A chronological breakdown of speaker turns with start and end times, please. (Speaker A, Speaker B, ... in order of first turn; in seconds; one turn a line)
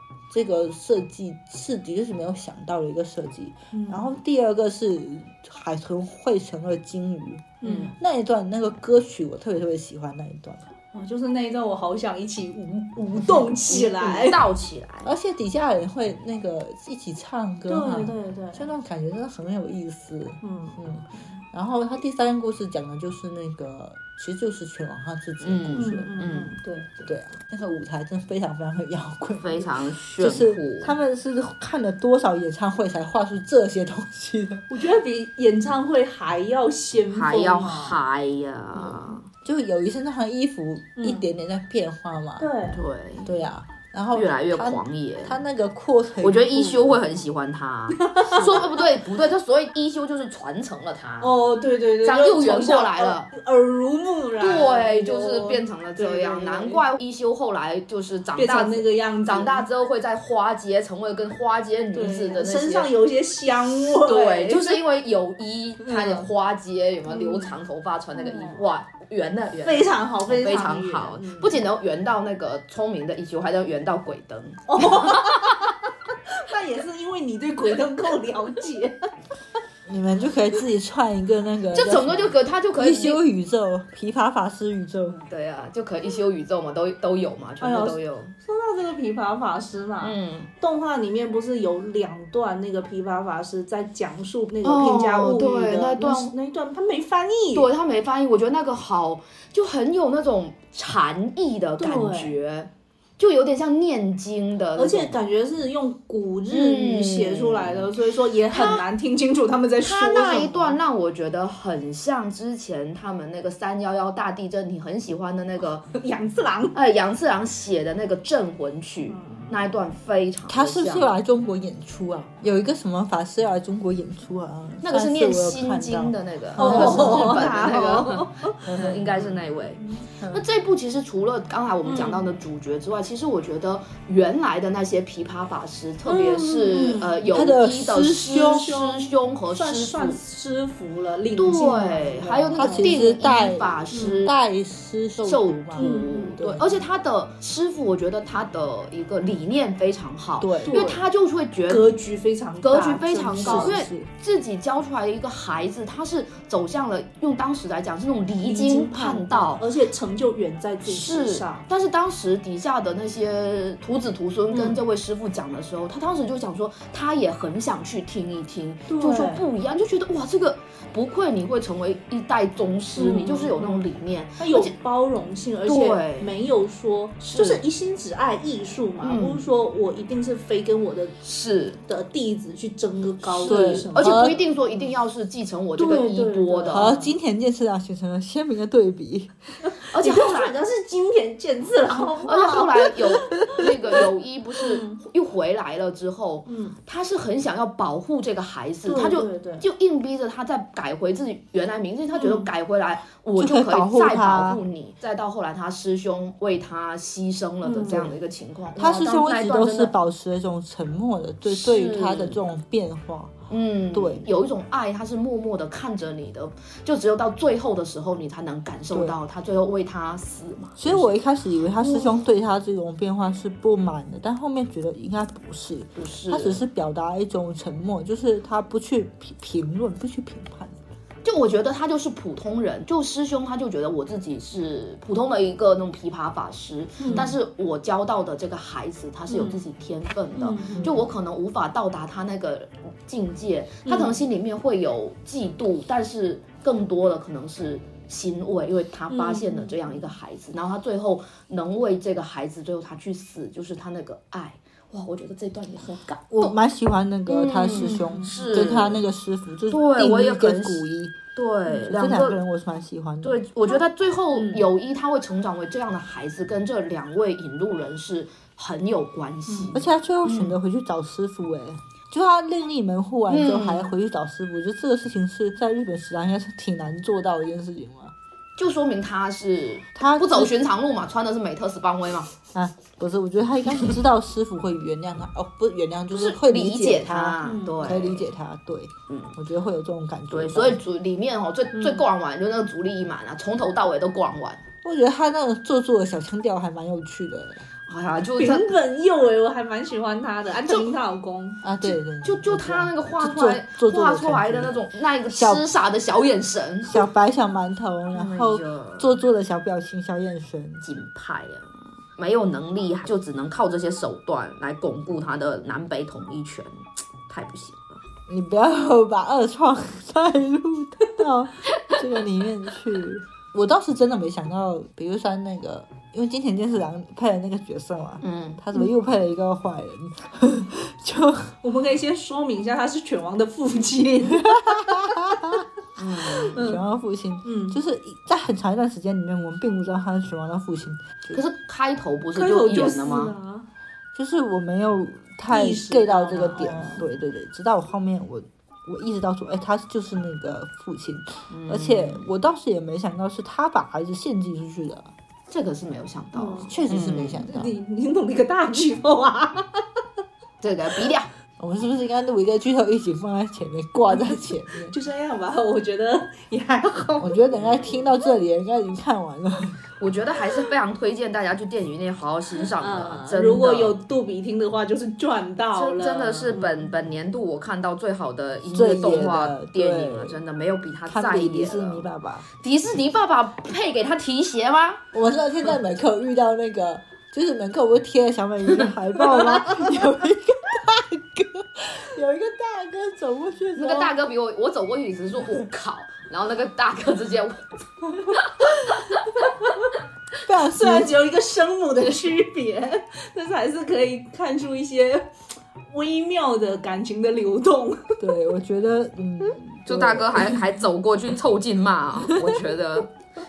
Speaker A: 0.3-10.7
Speaker B: 3.7-4.1
Speaker B: 7.6-7.9
Speaker C: 7.6-7.9
Speaker B: 10.9-14.4
Speaker C: 13.5-15.1
Speaker A: 15.0-26.1
Speaker B: 17.7-18.7
Speaker B: 20.4-20.8
Speaker C: 25.4-26.5
Speaker B: 25.8-27.1
Speaker A: 27.1-34.7
Speaker C: 29.4-30.9
Speaker B: 34.7-38.0
Speaker C: 37.1-39.2
Speaker A: 39.4-42.5
Speaker B: 41.0-41.2
Speaker B: 42.4-42.8
Speaker C: 42.7-43.4
Speaker A: 43.2-47.0
Speaker C: 44.1-45.4
Speaker C: 46.2-51.3
Speaker B: 48.0-48.8
Speaker B: 51.2-56.8
Speaker C: 52.0-53.3
Speaker C: 54.4-62.9
Speaker B: 58.4-59.7
Speaker B: 61.9-64.8
Speaker C: 63.9-75.4
Speaker B: 65.8-66.3
Speaker B: 67.1-67.5
Speaker B: 68.1-68.6
Speaker B: 69.6-71.6
Speaker B: 74.7-79.0
Speaker A: 79.8-85.2
Speaker C: 81.7-83.2
Speaker C: 85.2-88.3
Speaker B: 87.6-97.7
Speaker C: 90.0-90.5
Speaker C: 94.6-96.3
Speaker C: 97.5-105.2
Speaker B: 101.8-102.3
Speaker B: 104.8-110.8
Speaker C: 106.5-107.9
Speaker C: 108.5-108.8
Speaker C: 109.8-115.9
Speaker B: 115.9-116.8
Speaker C: 116.7-121.1
Speaker B: 119.1-119.6
Speaker A: 120.5-127.6
Speaker C: 124.8-140.2
Speaker B: 126.6-128.7
Speaker A: 128.7-129.4
Speaker A: 130.2-130.4
Speaker B: 131.8-132.2
Speaker B: 136.1-137.3
Speaker A: 137.3-138.7
Speaker B: 138.3-142.9
Speaker C: 141.3-144.3
Speaker A: 142.5-146.8
Speaker B: 143.9-144.2
Speaker C: 145.2-151.9
Speaker B: 145.8-146.3
Speaker A: 150.4-150.8
Speaker B: 150.7-151.0
Speaker B: 151.7-153.8
Speaker C: 152.6-159.7
Speaker A: 153.4-154.1
Speaker B: 158.4-161.6
Speaker C: 160.8-174.7
Speaker B: 164.5-164.8
Speaker B: 168.9-169.4
Speaker B: 172.9-173.8
Speaker B: 174.4-181.2
Speaker C: 175.7-176.3
Speaker C: 177.2-177.6
Speaker C: 179.0-179.4
Speaker C: 181.2-181.8
Speaker B: 181.8-184.8
Speaker C: 183.3-186.9
Speaker A: 183.4-184.4
Speaker B: 185.8-187.1
Speaker A: 186.7-189.3
Speaker B: 189.7-193.0
Speaker C: 189.9-190.6
Speaker C: 192.2-209.9
Speaker B: 194.6-195.0
Speaker B: 196.4-196.8
Speaker B: 198.8-199.7
Speaker B: 202.2-202.5
Speaker A: 203.4-204.6
Speaker B: 207.6-208.1
Speaker A: 208.8-213.3
Speaker C: 211.4-212.4
Speaker C: 213.5-221.1
Speaker A: 213.9-214.3
Speaker A: 220.8-230.8
Speaker C: 225.9-226.6
Speaker C: 231.2-256.6
Speaker B: 237.0-237.3
Speaker B: 239.3-239.6
Speaker B: 240.3-240.9
Speaker A: 240.7-241.1
Speaker B: 243.8-244.2
Speaker B: 249.1-249.9
Speaker A: 256.3-261.2
Speaker C: 257.3-259.0
Speaker B: 257.8-258.5
Speaker C: 259.7-262.4
Speaker A: 261.9-263.4
Speaker C: 263.2-270.6
Speaker B: 264.3-264.6
Speaker B: 269.5-269.8
Speaker A: 269.7-278.1
Speaker C: 273.3-273.9
Speaker C: 278.6-282.3
Speaker A: 279.9-280.5
Speaker A: 282.5-290.8
Speaker C: 286.1-288.3
Speaker B: 287.4-288.0
Speaker C: 289.1-289.4
Speaker C: 290.3-294.6
Speaker B: 291.7-292.0
Speaker A: 294.8-297.6
Speaker C: 297.9-298.7
Speaker B: 298.4-301.6
Speaker C: 300.7-300.9
Speaker A: 301.6-304.8
Speaker C: 301.8-307.0
Speaker A: 305.3-305.6
Speaker A: 306.9-310.8
Speaker C: 308.1-309.1
Speaker C: 310.8-318.0
Speaker A: 318.3-331.6
Speaker C: 328.2-328.6
Speaker B: 331.6-335.2
Speaker A: 334.4-335.6
Speaker C: 336.0-336.7
Speaker B: 336.1-336.8
Speaker A: 336.4-341.4
Speaker B: 337.4-337.8
Speaker C: 341.3-343.3
Speaker B: 342.3-343.7
Speaker A: 344.1-355.1
Speaker B: 345.5-347.0
Speaker C: 351.5-352.2
Speaker C: 355.5-357.4
Speaker B: 356.3-356.8
Speaker A: 356.6-357.7
Speaker B: 357.4-359.8
Speaker C: 360.6-361.3
Speaker A: 361.6-364.9
Speaker B: 364.1-367.4
Speaker A: 367.2-369.9
Speaker C: 370.0-374.0
Speaker B: 372.7-376.9
Speaker C: 375.7-382.1
Speaker A: 378.7-380.4
Speaker A: 381.1-382.5
Speaker C: 382.6-385.0
Speaker A: 385.1-394.1
Speaker C: 393.8-397.6
Speaker C: 398.2-399.2
Speaker B: 399.4-399.9
Speaker A: 400.4-401.1
Speaker B: 400.8-405.3
Speaker B: 405.9-408.2
Speaker A: 408.2-410.5
Speaker C: 409.9-413.1